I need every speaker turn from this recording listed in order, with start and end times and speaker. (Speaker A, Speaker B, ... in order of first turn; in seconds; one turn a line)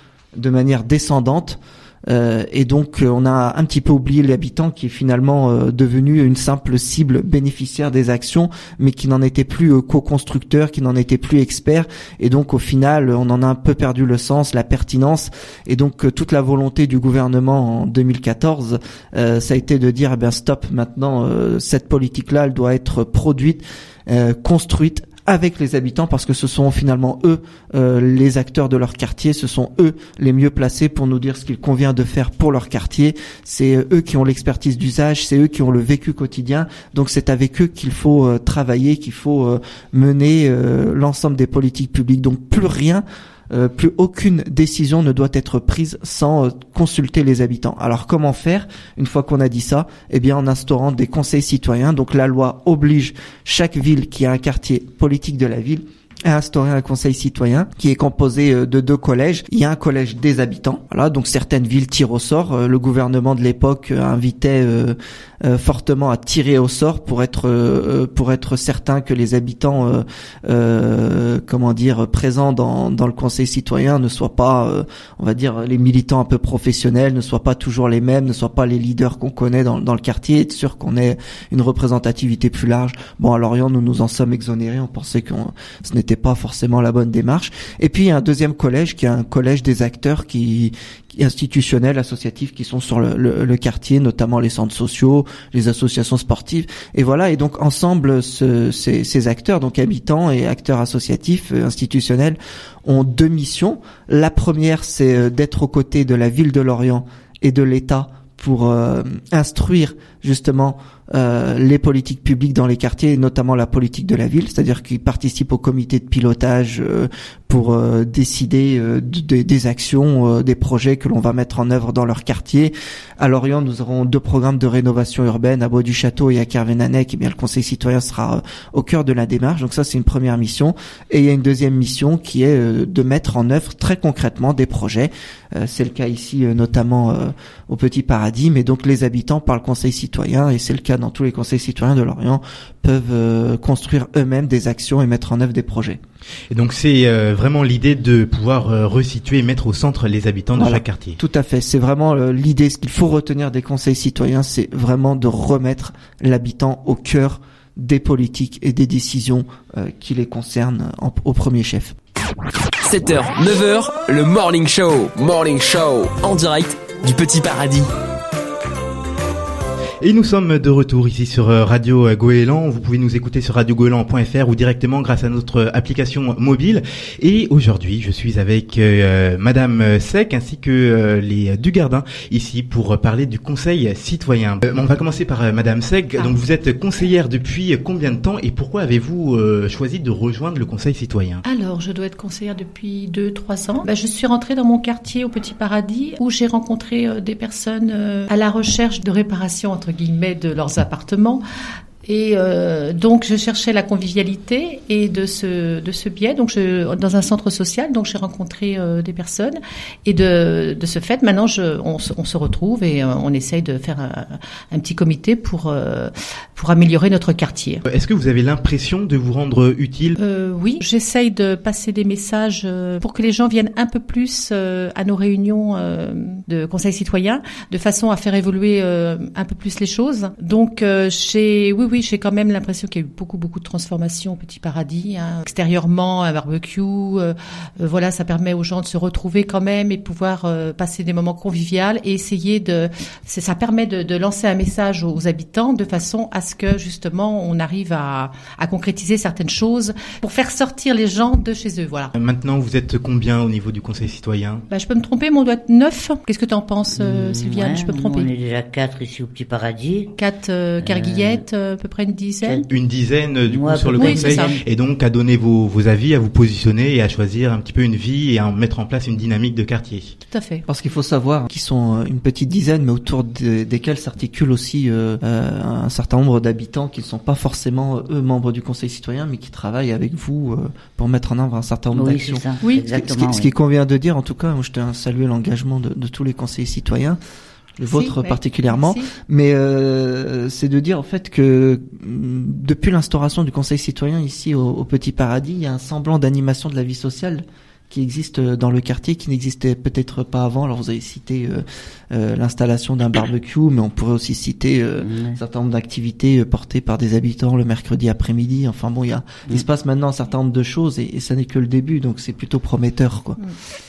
Speaker A: 0.4-146.0
Speaker B: 146.5-151.2
Speaker A: 150.6-161.9
Speaker C: 162.8-167.9
Speaker B: 170.0-191.4
Speaker D: 191.4-201.4
Speaker D: 202.1-217.8
Speaker B: 217.8-220.2
Speaker D: 220.2-252.1
Speaker B: 252.1-254.7
Speaker D: 254.7-258.3
Speaker E: 256.9-260.1
Speaker D: 260.2-262.6
Speaker E: 260.8-261.4
Speaker E: 262.4-262.7
Speaker B: 262.7-270.2
Speaker E: 263.5-264.6
Speaker D: 264.0-264.5
Speaker D: 270.3-270.6
Speaker A: 270.7-287.2
Speaker E: 281.9-283.5
Speaker D: 282.6-282.9
Speaker A: 287.8-313.4
Speaker D: 287.9-289.1
Speaker E: 305.0-305.4